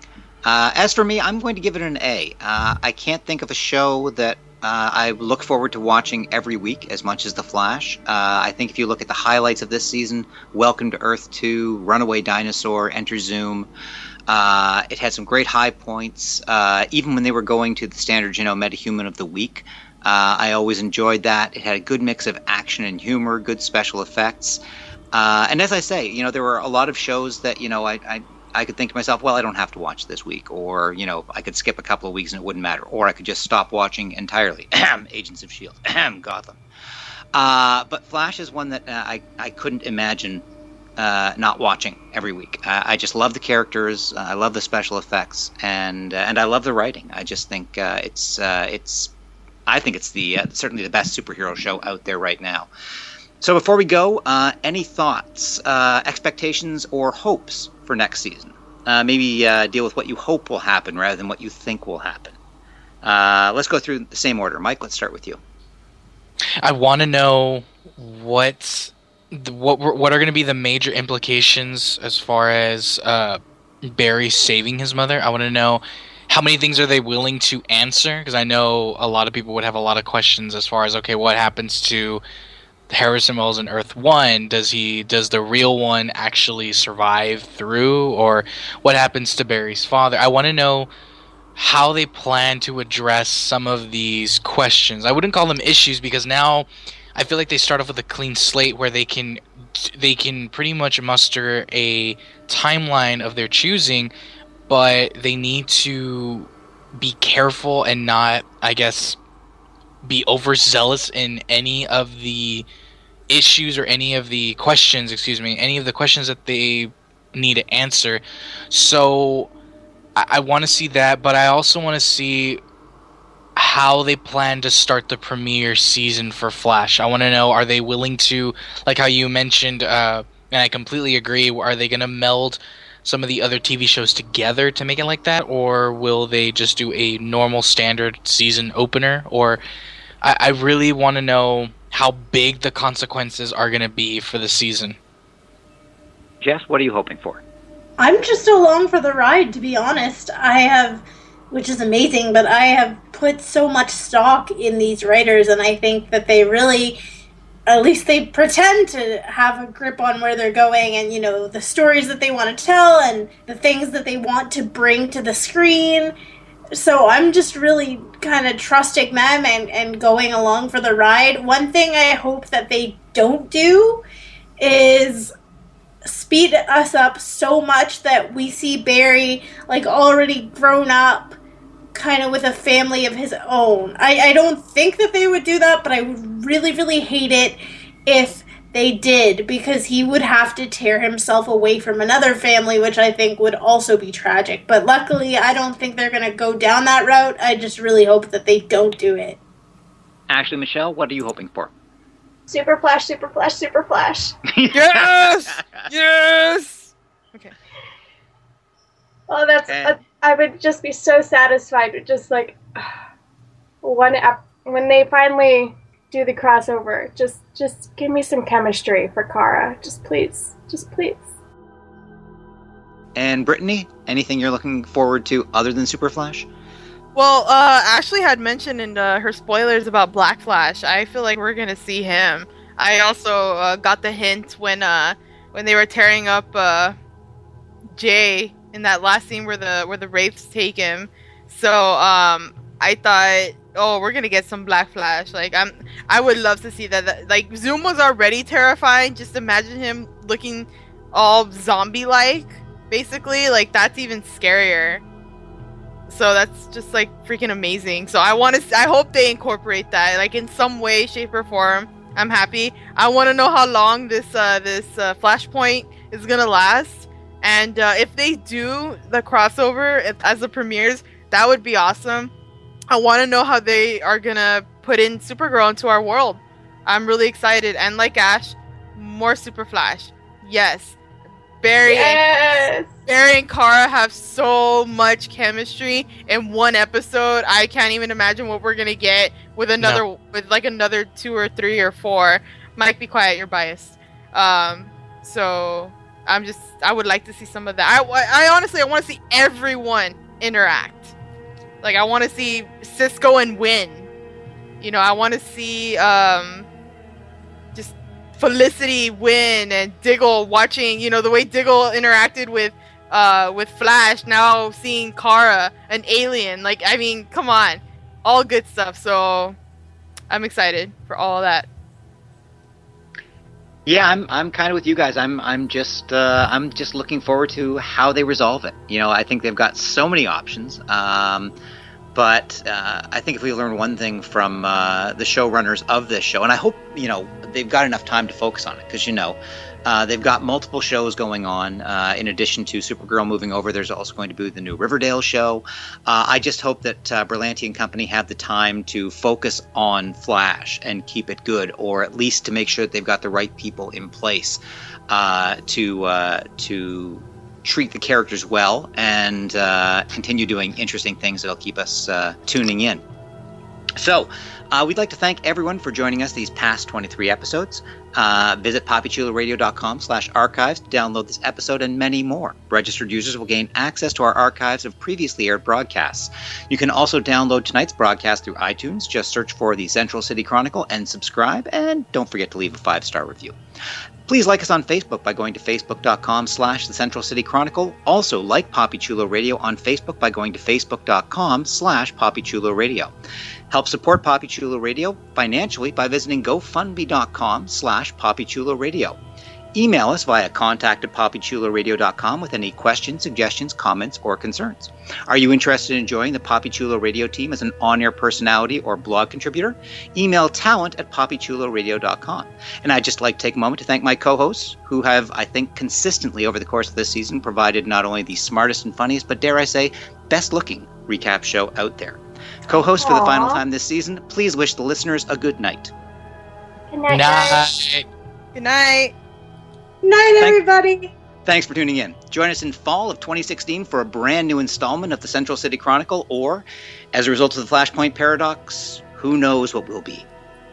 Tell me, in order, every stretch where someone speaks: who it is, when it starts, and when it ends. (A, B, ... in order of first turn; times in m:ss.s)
0:00.4-0:13.7 A
0:14.3-0:24.6 A
0:25.1-0:36.6 A
0:37.3-0:40.4 A
0:41.0-0:49.1 A
0:49.7-0:52.7 A
0:53.4-1:02.4 A
1:03.0-1:05.4 A
1:06.6-1:13.4 B
1:13.9-1:22.2 B
1:22.9-1:30.9 B
1:31.6-1:44.1 B
1:44.7-1:49.2 B
1:50.0-1:52.6 B
1:53.3-1:59.5 B
2:00.2-2:02.6 B
2:03.6-2:19.6 B
2:20.2-2:25.0 B
2:26.4-2:27.4 A
2:28.0-2:37.0 C
2:37.7-2:46.2 C
2:46.7-2:54.0 C
2:54.6-2:55.3 C
2:56.0-3:01.4 C
3:01.9-3:19.4 C
3:20.3-3:21.7 A
3:22.5-3:24.4 D
3:24.5-3:25.9 A
3:24.7-3:27.5 E
3:29.3-3:32.9 D
3:29.7-3:30.0 A
3:33.8-3:41.3 D
3:43.2-3:46.5 A
3:47.2-3:57.0 E
3:58.0-4:15.0 E
4:16.1-4:32.3 E
4:32.9-4:41.0 E
4:41.6-4:42.2 E
4:41.8-4:42.9 D
4:43.1-5:01.1 E
5:01.8-5:04.1 E
5:04.8-5:06.7 E
5:07.8-5:19.6 E
5:20.3-5:21.7 E
5:23.9-5:31.5 A
5:32.1-6:03.0 A
6:04.0-6:23.6 A
6:24.3-6:33.1 A
6:33.7-6:39.2 A
6:39.8-7:05.9 A
7:03.0-7:03.6 D
7:06.9-7:07.6 D
7:07.1-7:08.1 B
7:08.6-7:09.1 E
7:10.0-7:11.1 C
7:11.4-7:20.3 A